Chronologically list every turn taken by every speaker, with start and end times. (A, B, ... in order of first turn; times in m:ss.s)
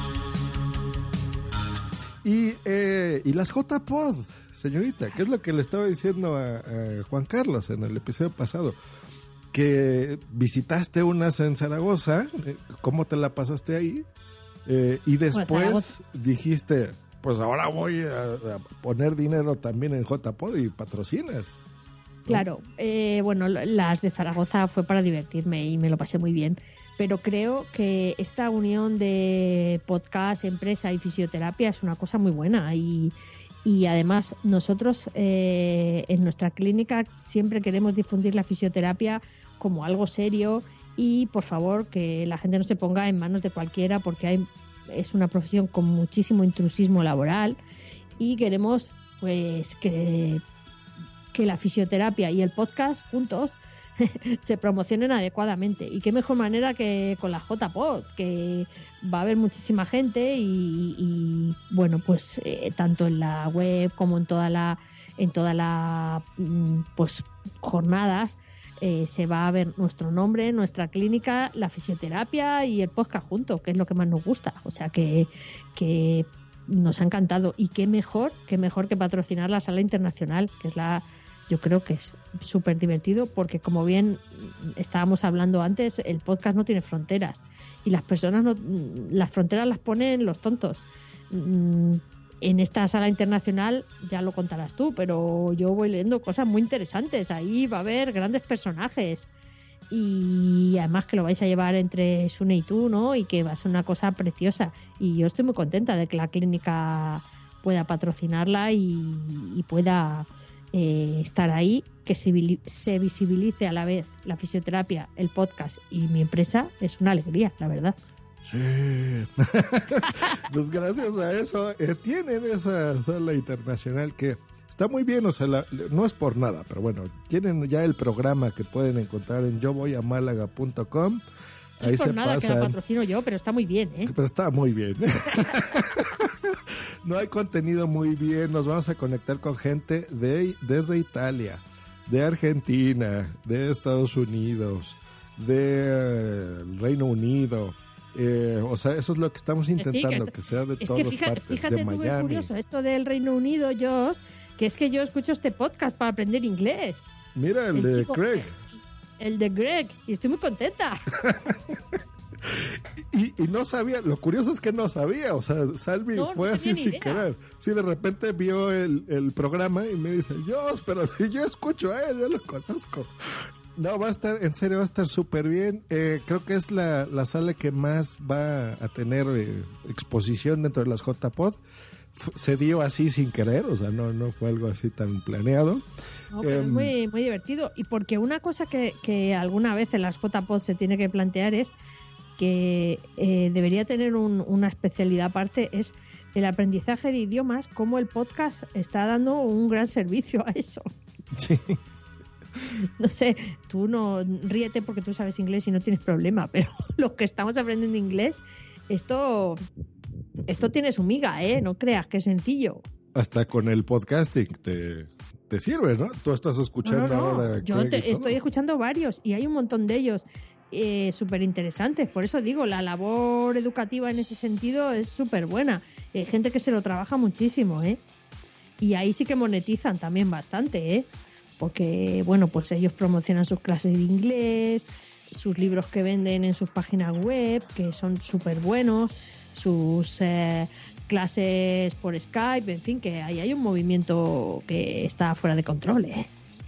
0:02.2-0:08.8 A
0:09.5-0:14.1 A
0:14.7-0:21.6 A
0:15.3-0:15.9 B
0:22.3-0:47.6 B
0:48.2-0:50.4 B
0:51.3-1:39.3 B
1:39.9-1:58.0 B
1:58.4-2:11.2 A
2:11.8-2:12.8 A
2:11.8-2:14.1 B
2:14.0-2:32.5 A
2:29.8-2:37.1 B
2:37.4-2:38.6 A
2:37.8-2:41.0 B
2:41.2-3:01.6 A
2:46.2-2:47.3 B
3:02.1-3:05.8 A
3:06.3-3:11.8 B
3:06.4-3:06.9 A
3:12.4-3:20.9 B
3:21.3-3:21.8 A
3:23.0-3:29.6 B
3:30.5-3:32.8 B
3:33.1-3:38.4 A
3:36.8-3:48.0 B
3:48.8-3:51.1 B
3:51.6-4:06.3 B